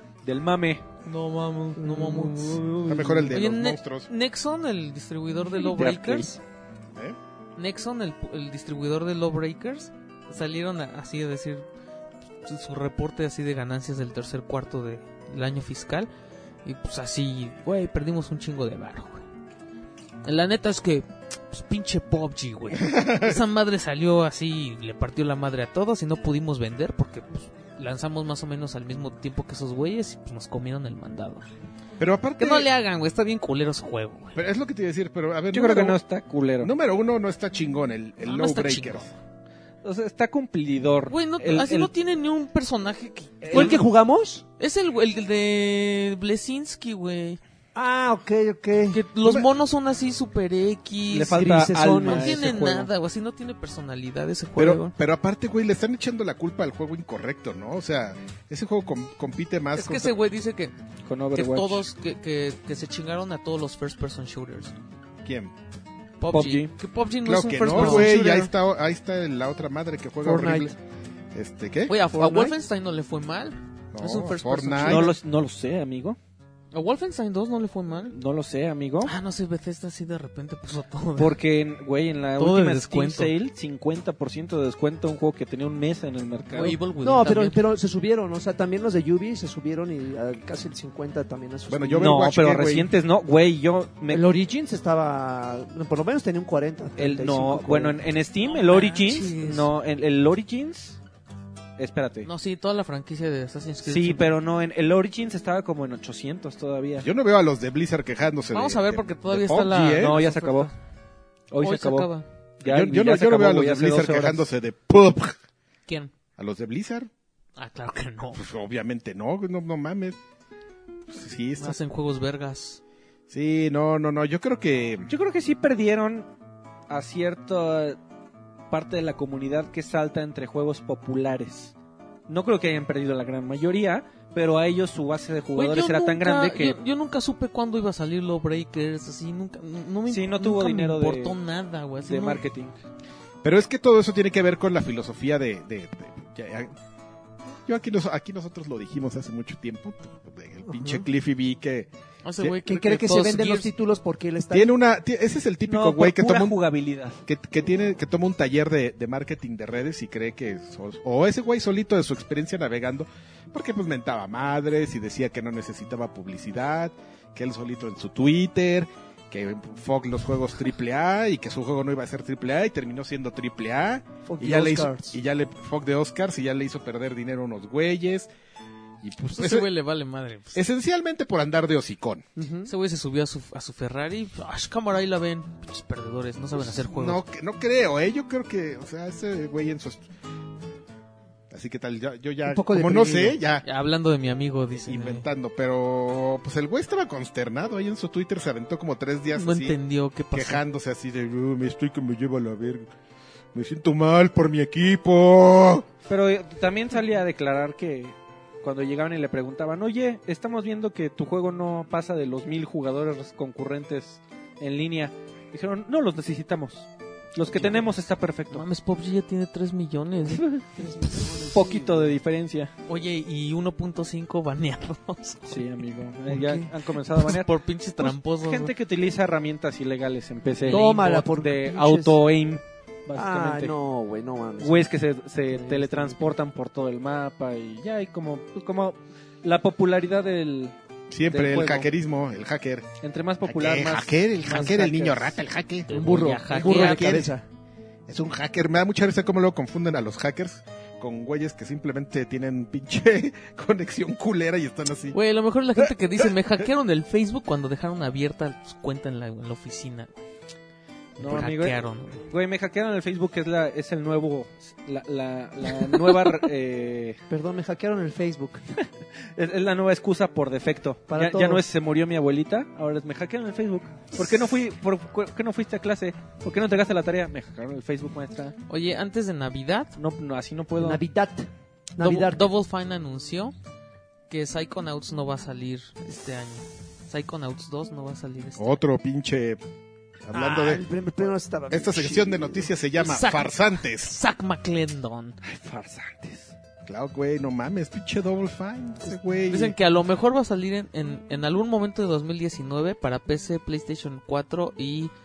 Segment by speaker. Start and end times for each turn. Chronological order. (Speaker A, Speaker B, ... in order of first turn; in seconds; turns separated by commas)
Speaker A: 0.2-0.8, Speaker B: 1.1-2.8, Speaker C: 1.8-3.4, Speaker D: 2.9-4.1, Speaker B: 3.3-6.4, Speaker A: 5.5-6.4, Speaker B: 7.6-11.7, Speaker B: 12.4-16.1, Speaker B: 16.6-19.2, Speaker B: 20.2-31.4, Speaker D: 22.9-23.4, Speaker D: 32.0-32.7, Speaker B: 32.4-34.4, Speaker D: 34.4-36.0, Speaker A: 35.5-36.7, Speaker D: 36.6-39.1, Speaker B: 38.2-39.1, Speaker A: 39.8-41.9, Speaker B: 41.1-43.8, Speaker A: 43.5-43.8, Speaker C: 43.5-44.4, Speaker B: 44.6-47.4, Speaker C: 47.8-49.4, Speaker B: 48.9-54.9, Speaker A: 51.1-52.9, Speaker C: 51.3-52.4, Speaker D: 54.6-60.1, Speaker B: 59.8-60.7, Speaker A: 61.0-61.8, Speaker B: 61.3-64.7, Speaker D: 65.2-65.5, Speaker B: 66.2-68.5, Speaker A: 66.3-66.7, Speaker D: 67.2-70.8, Speaker A: 67.7-68.0, Speaker C: 70.2-70.8, Speaker D: 71.3-71.9, Speaker B: 71.9-75.1, Speaker C: 72.1-72.5, Speaker D: 73.9-75.1, Speaker A: 74.8-76.2, Speaker B: 76.7-78.2, Speaker A: 78.1-79.1, Speaker B: 79.0-81.4, Speaker A: 81.2-86.8, Speaker B: 82.4-83.3, Speaker B: 86.5-87.6, Speaker C: 87.0-92.3, Speaker D: 91.7-92.9, Speaker A: 92.0-94.2, Speaker C: 94.1-98.0, Speaker A: 97.0-101.0, Speaker B: 98.4-99.7, Speaker A: 101.8-102.3, Speaker B: 102.2-104.3, Speaker A: 103.8-107.1, Speaker D: 107.0-110.2, Speaker B: 108.5-110.7, Speaker A: 110.0-110.7, Speaker A: 111.5-112.1, Speaker B: 111.6-112.3, Speaker A: 112.6-114.5, Speaker D: 112.6-115.4, Speaker B: 115.9-116.1, Speaker D: 116.4-117.1, Speaker B: 117.6-118.4, Speaker D: 118.3-120.2, Speaker D: 121.1-121.8, Speaker B: 121.6-122.8, Speaker D: 123.3-125.1, Speaker A: 125.1-126.3, Speaker A: 126.9-128.0, Speaker A: 128.7-131.7, Speaker A: 132.3-136.8, Speaker B: 135.6-142.4, Speaker A: 140.1-141.4, Speaker A: 142.1-142.8, Speaker D: 143.4-146.7, Speaker D: 147.7-151.9, Speaker B: 152.2-153.7, Speaker C: 152.6-154.7, Speaker D: 154.5-156.6, Speaker A: 155.7-157.2, Speaker D: 157.2-178.3, Speaker C: 174.3-175.2, Speaker D: 179.0-179.7, Speaker B: 179.3-180.6, Speaker D: 180.6-182.2, Speaker C: 182.4-182.7, Speaker B: 182.7-187.2, Speaker D: 186.6-190.1, Speaker D: 191.5-193.6, Speaker C: 192.5-193.4, Speaker B: 193.6-195.3, Speaker D: 194.9-199.8, Speaker B: 199.3-200.6, Speaker D: 200.3-202.9, Speaker D: 203.5-205.9, Speaker A: 206.1-218.7, Speaker B: 217.5-217.9, Speaker B: 218.5-220.5, Speaker C: 220.6-222.2, Speaker A: 221.4-222.7, Speaker B: 222.9-225.7, Speaker A: 225.5-233.8, Speaker C: 226.3-226.7, Speaker B: 227.1-228.7, Speaker B: 230.6-230.9, Speaker C: 230.7-232.2, Speaker C: 233.2-234.8, Speaker A: 234.6-240.8, Speaker C: 235.5-236.4, Speaker D: 241.1-242.9, Speaker A: 241.3-241.9, Speaker A: 243.0-245.4, Speaker D: 243.4-245.9, Speaker B: 245.9-247.3, Speaker C: 245.9-247.4, Speaker D: 246.5-247.3, Speaker D: 248.1-255.2, Speaker B: 255.1-260.2, Speaker B: 261.2-262.2, Speaker A: 261.2-267.2, Speaker B: 265.9-266.3, Speaker C: 267.3-268.6, Speaker A: 269.2-278.6, Speaker C: 271.1-271.6, Speaker B: 278.7-280.0, Speaker A: 280.0-281.0, Speaker C: 280.8-282.4, Speaker B: 282.0-283.6, Speaker B: 284.3-288.8, Speaker D: 288.6-289.6, Speaker D: 290.2-290.9, Speaker C: 290.3-292.7, Speaker D: 291.7-294.1, Speaker B: 293.0-295.4, Speaker A: 295.4-296.5, Speaker D: 296.9-299.7, Speaker B: 299.5-305.1